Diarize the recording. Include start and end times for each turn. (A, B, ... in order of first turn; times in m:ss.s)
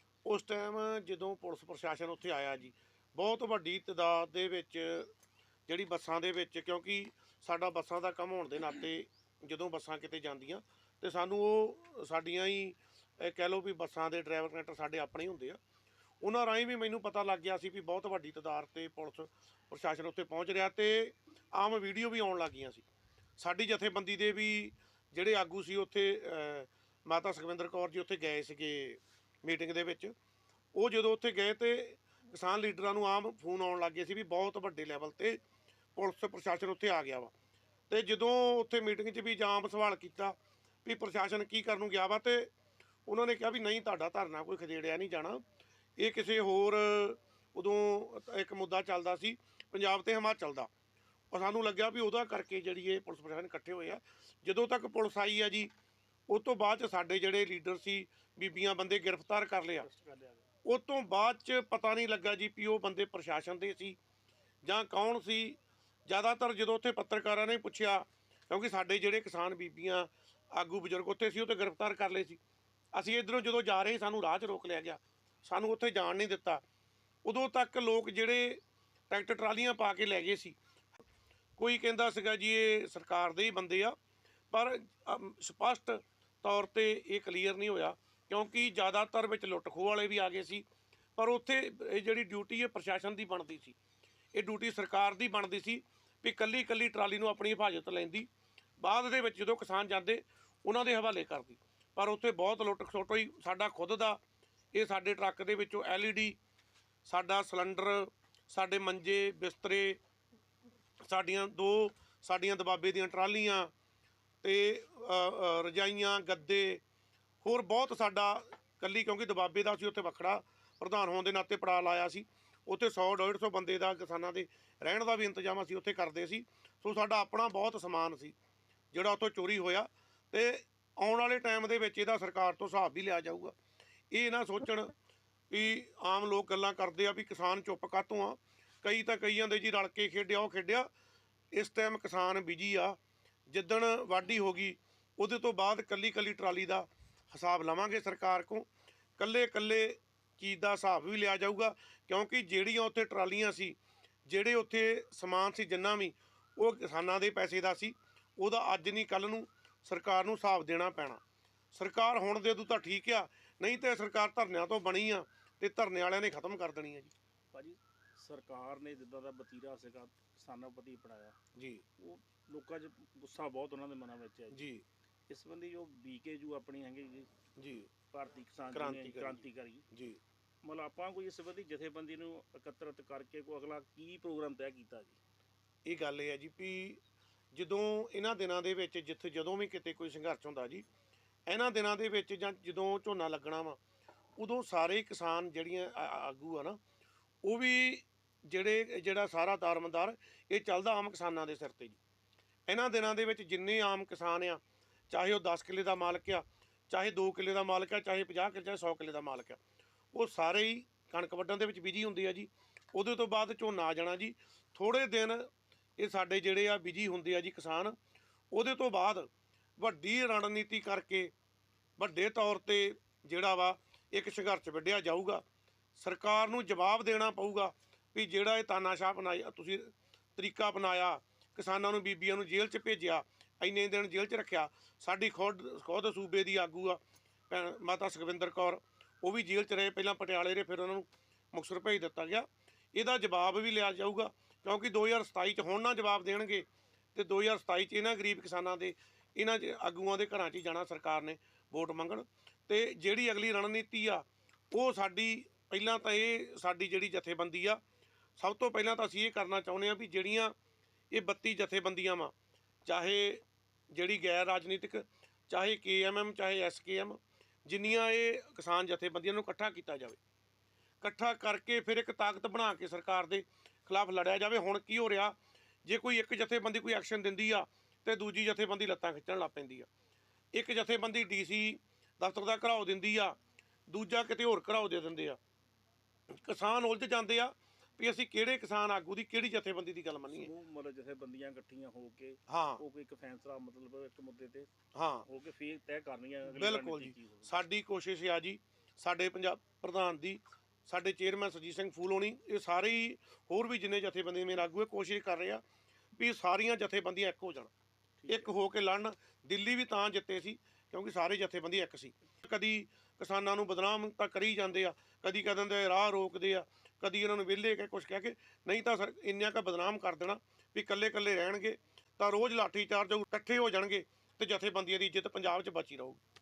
0:00.2-0:05.1 A
0:05.7-0:15.6 A
0:16.2-0:22.9 A
0:23.4-0:30.1 A
0:30.7-0:35.4 A
0:36.0-0:37.3 A
0:37.9-0:42.5 A
0:43.1-0:45.4 A
0:46.0-0:50.7 A
0:51.3-0:55.7 A
0:56.3-0:59.9 A
0:59.8-1:00.5 B
1:00.6-1:04.0 A
1:04.6-1:12.4 A
1:12.9-1:16.6 A
1:17.2-1:20.6 A
1:21.6-1:24.0 A
1:24.5-1:30.6 A
1:31.2-1:33.8 A
1:34.3-1:38.3 A
1:38.8-1:44.2 A
1:44.7-1:46.4 A
1:47.0-1:50.0 A
1:51.0-1:53.7 A
1:54.4-1:56.8 A
1:57.4-2:08.4 A
2:08.9-2:13.6 A
2:14.1-2:14.9 A
2:15.5-2:20.9 A
2:21.5-2:23.0 A
2:23.5-2:33.8 A
2:34.3-2:41.2 A
2:41.7-2:47.1 A
2:47.5-2:51.4 B
2:51.6-2:51.8 A
2:52.0-2:54.6 B
2:54.5-2:54.8 A
2:55.3-2:57.3 B
2:57.6-2:57.9 A
2:58.1-2:59.8 B
2:58.7-3:00.2 A
3:00.6-3:05.2 B
3:05.8-3:07.0 A
3:07.5-3:10.8 A
3:11.5-3:13.8 A
3:14.4-3:16.8 A
3:17.4-3:22.0 A
3:22.7-3:29.6 A
3:30.1-3:35.5 A
3:36.0-3:38.0 A
3:38.5-3:41.3 A
3:42.0-3:45.4 A
3:46.0-4:17.8 A
4:18.4-4:20.5 A
4:21.1-4:22.3 A
4:22.9-4:30.2 A
4:31.0-4:39.9 A
4:40.5-4:43.4 A
4:43.9-4:45.4 A
4:46.3-4:50.5 A
4:50.2-4:54.7 B
4:52.5-4:52.8 A
4:55.0-4:55.3 A
4:55.2-4:57.6 B
4:56.5-5:05.6 A
5:06.2-5:07.7 A
5:08.2-5:08.6 B
5:08.3-5:26.2 A